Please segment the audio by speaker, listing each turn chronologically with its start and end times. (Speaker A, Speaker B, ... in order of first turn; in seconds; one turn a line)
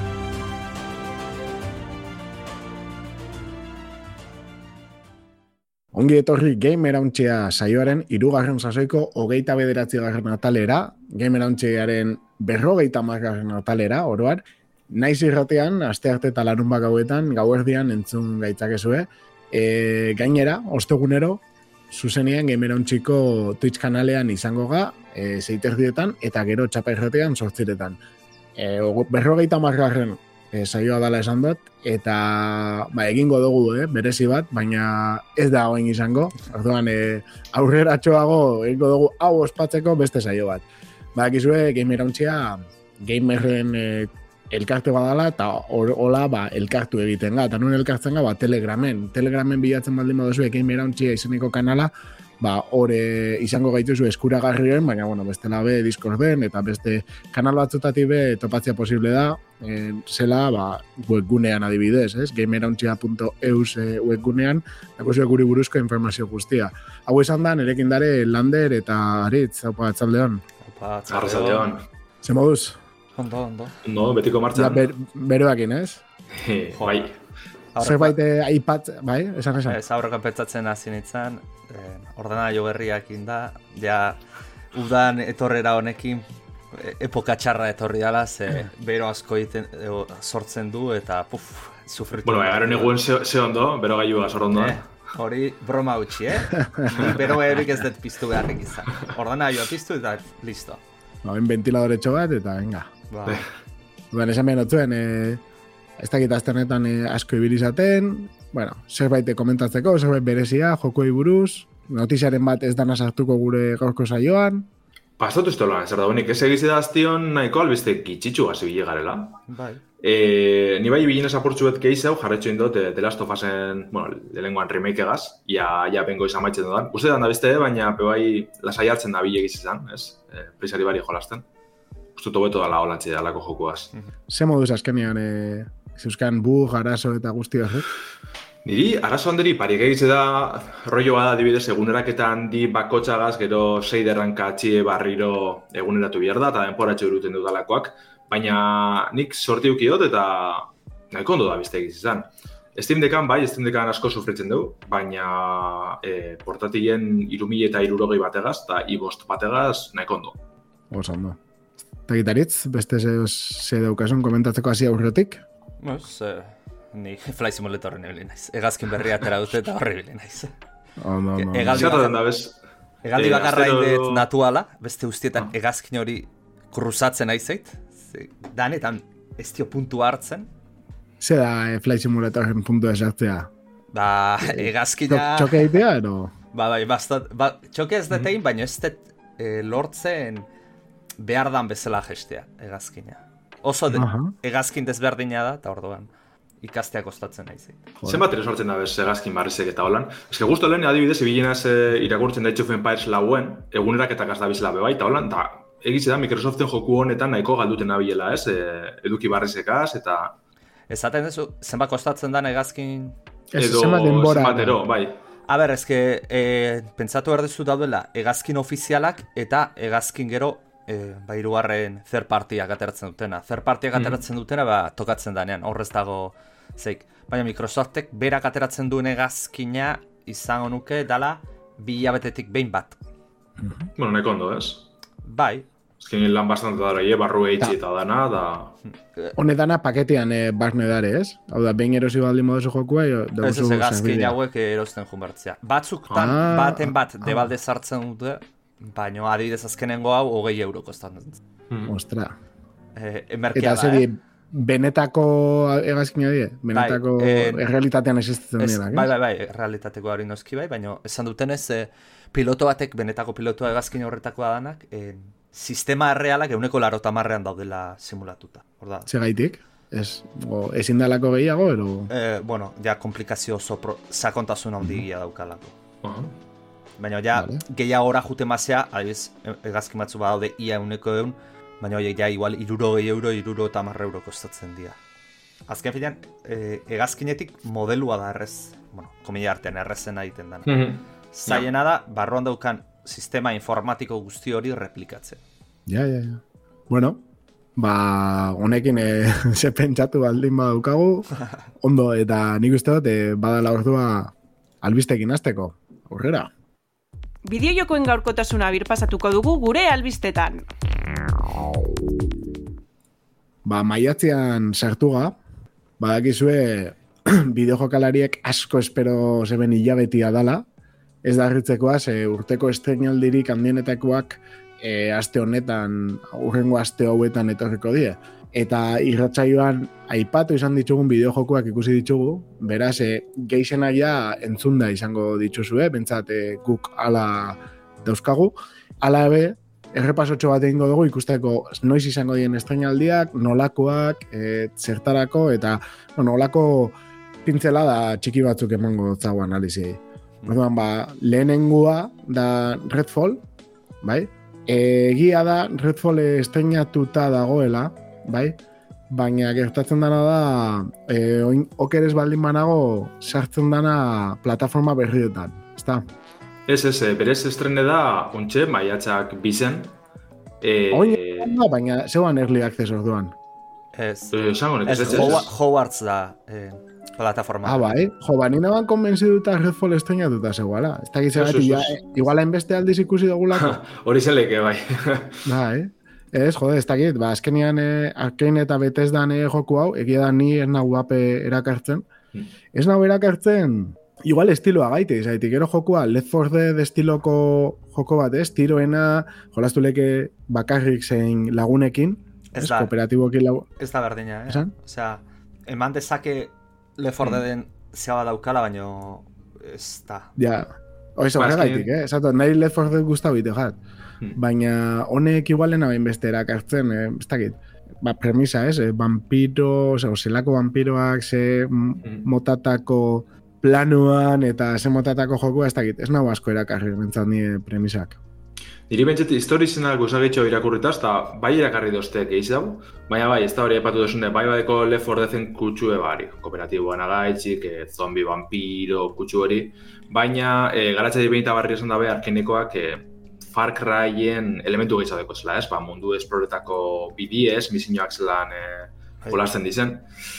Speaker A: 5.9-28.0
Speaker A: 28.6-40.6
Speaker A: 41.1-70.4
Speaker B: 70.6-71.7
Speaker C: 71.1-71.8
Speaker A: 72.2-72.8
Speaker B: 73.1-73.8
Speaker C: 73.8-74.8
Speaker A: 74.5-76.0
Speaker C: 76.3-77.1
Speaker B: 76.8-77.0
Speaker B: 77.7-78.2
Speaker A: 77.8-79.8
Speaker B: 79.7-84.2
Speaker B: 84.7-93.0
Speaker C: 92.2-94.8
Speaker B: 94.5-100.8
Speaker A: 101.2-102.9
Speaker B: 103.1-103.4
Speaker A: 104.1-105.4
Speaker A: 106.0-114.7
Speaker C: 115.2-119.4
Speaker B: 119.5-119.8
Speaker C: 120.0-131.4
Speaker C: 132.2-133.9
Speaker A: 134.3-137.9
Speaker C: 138.6-160.4
Speaker A: 160.9-161.4
Speaker A: 162.1-165.4
Speaker B: 165.8-170.5
Speaker A: 171.0-171.9
Speaker B: 171.4-172.2
Speaker C: 171.7-172.6
Speaker B: 173.0-180.5
Speaker C: 173.2-174.2
Speaker A: 181.2-183.5
Speaker B: 183.9-185.8
Speaker A: 184.4-186.3
Speaker B: 186.5-190.5
Speaker B: 191.2-196.1
Speaker A: 193.9-194.3
Speaker B: 196.6-197.8
Speaker C: 198.0-210.3
Speaker B: 210.9-213.2
Speaker A: 213.5-214.8
Speaker C: 213.6-215.2
Speaker B: 215.5-233.0
Speaker C: 233.9-234.8
Speaker B: 235.2-235.7
Speaker C: 236.0-238.7
Speaker B: 238.9-239.3
Speaker A: 239.3-244.3
Speaker B: 243.4-251.4
Speaker A: 246.1-247.5
Speaker A: 251.9-252.3
Speaker B: 252.9-254.1
Speaker A: 253.5-259.1
Speaker B: 256.7-257.6
Speaker B: 258.6-269.1
Speaker A: 269.1-272.1
Speaker B: 272.1-275.8
Speaker C: 276.0-276.3
Speaker B: 277.0-285.0
Speaker A: 277.3-277.6
Speaker B: 285.7-295.4
Speaker C: 290.6-291.6
Speaker A: 295.9-297.2
Speaker A: 297.8-306.5
Speaker D: 307.4-310.6
Speaker A: 313.6-315.4
Speaker A: 316.0-320.6
Speaker A: 321.2-353.4
Speaker A: 354.0-358.6
Speaker A: 359.1-366.0
Speaker C: 366.7-369.9
Speaker C: 370.6-371.6
Speaker A: 370.9-373.3
Speaker B: 373.9-374.3
Speaker C: 374.3-375.5
Speaker B: 374.9-377.9
Speaker A: 375.1-375.4
Speaker A: 377.6-383.8
Speaker C: 381.3-382.0
Speaker C: 383.5-385.5
Speaker A: 385.4-392.1
Speaker A: 392.7-403.7
Speaker B: 402.5-402.9
Speaker B: 403.8-410.3
Speaker A: 410.4-413.8
Speaker C: 411.3-411.9
Speaker A: 414.3-428.2
Speaker C: 428.9-450.1